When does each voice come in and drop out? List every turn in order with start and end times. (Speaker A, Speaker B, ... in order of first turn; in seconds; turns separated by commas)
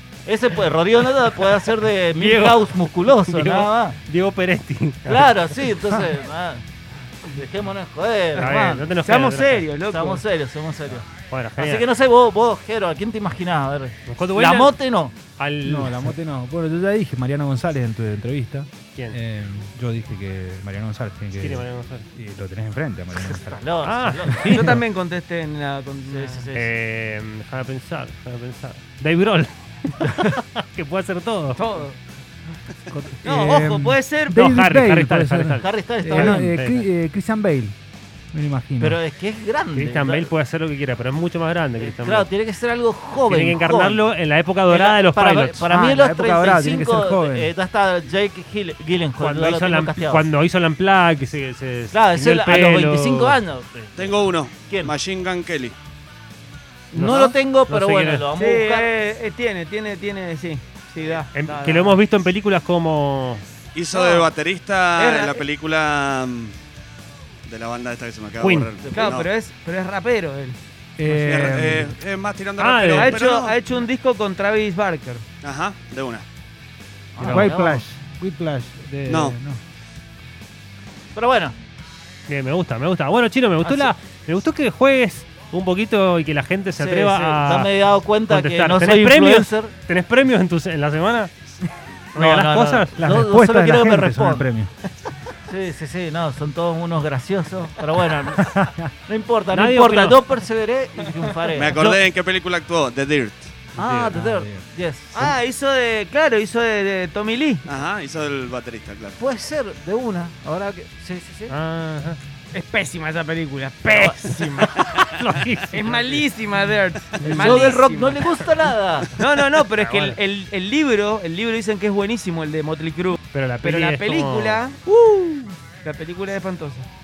Speaker A: 0.3-4.0, Speaker B: 2.2-5.3, Speaker A: 5.0-6.6, Speaker A: 7.2-8.8, Speaker B: 8.4-9.7, Speaker C: 9.0-10.2, Speaker A: 9.9-15.2, Speaker B: 11.3-11.9, Speaker B: 14.1-14.7, Speaker B: 15.4-16.1, Speaker D: 15.7-23.6, Speaker B: 21.3-22.1, Speaker A: 23.1-24.6, Speaker B: 23.8-24.8, Speaker C: 24.5-26.5, Speaker A: 26.1-26.7, Speaker B: 26.5-31.6, Speaker C: 31.6-32.0, Speaker D: 32.9-37.7, Speaker C: 33.2-34.5, Speaker B: 34.4-36.9, Speaker A: 35.6-36.5, Speaker D: 38.3-39.0, Speaker A: 38.8-40.3, Speaker B: 39.8-42.3, Speaker A: 41.8-44.0, Speaker B: 43.2-45.8, Speaker A: 44.7-50.2, Speaker D: 45.7-47.5, Speaker B: 49.2-53.4, Speaker A: 51.9-54.0, Speaker E: 54.0-55.8, Speaker A: 54.7-54.9, Speaker A: 56.9-58.9, Speaker B: 57.0-58.3, Speaker C: 58.4-62.0, Speaker B: 61.3-63.4, Speaker E: 63.8-66.5, Speaker C: 63.9-64.3, Speaker C: 65.0-65.5, Speaker E: 67.5-69.3, Speaker B: 68.4-68.7, Speaker A: 68.8-69.2, Speaker C: 68.9-70.6, Speaker D: 71.0-72.0, Speaker E: 71.1-73.6, Speaker B: 72.6-73.1, Speaker C: 72.8-75.2, Speaker E: 75.4-76.2, Speaker A: 77.2-77.6, Speaker B: 77.2-77.8, Speaker D: 77.2-79.6, Speaker E: 79.1-79.4, Speaker A: 81.2-81.5, Speaker B: 82.3-87.7, Speaker A: 83.6-83.9, Speaker A: 86.8-89.7, Speaker B: 88.3-91.3, Speaker A: 92.1-94.5, Speaker B: 92.2-93.0, Speaker D: 93.0-94.7, Speaker A: 95.5-102.0, Speaker D: 98.4-98.7, Speaker B: 99.5-100.2, Speaker E: 101.5-103.5, Speaker A: 103.8-105.3, Speaker B: 103.8-104.2, Speaker D: 104.1-104.6, Speaker C: 105.2-107.6, Speaker E: 107.7-109.2, Speaker A: 109.2-111.6, Speaker B: 111.5-112.2, Speaker C: 112.5-115.1, Speaker A: 113.9-114.2, Speaker B: 114.8-116.2, Speaker C: 115.7-118.5, Speaker A: 117.3-119.2, Speaker C: 119.2-126.9, Speaker B: 119.8-120.2, Speaker B: 123.3-124.6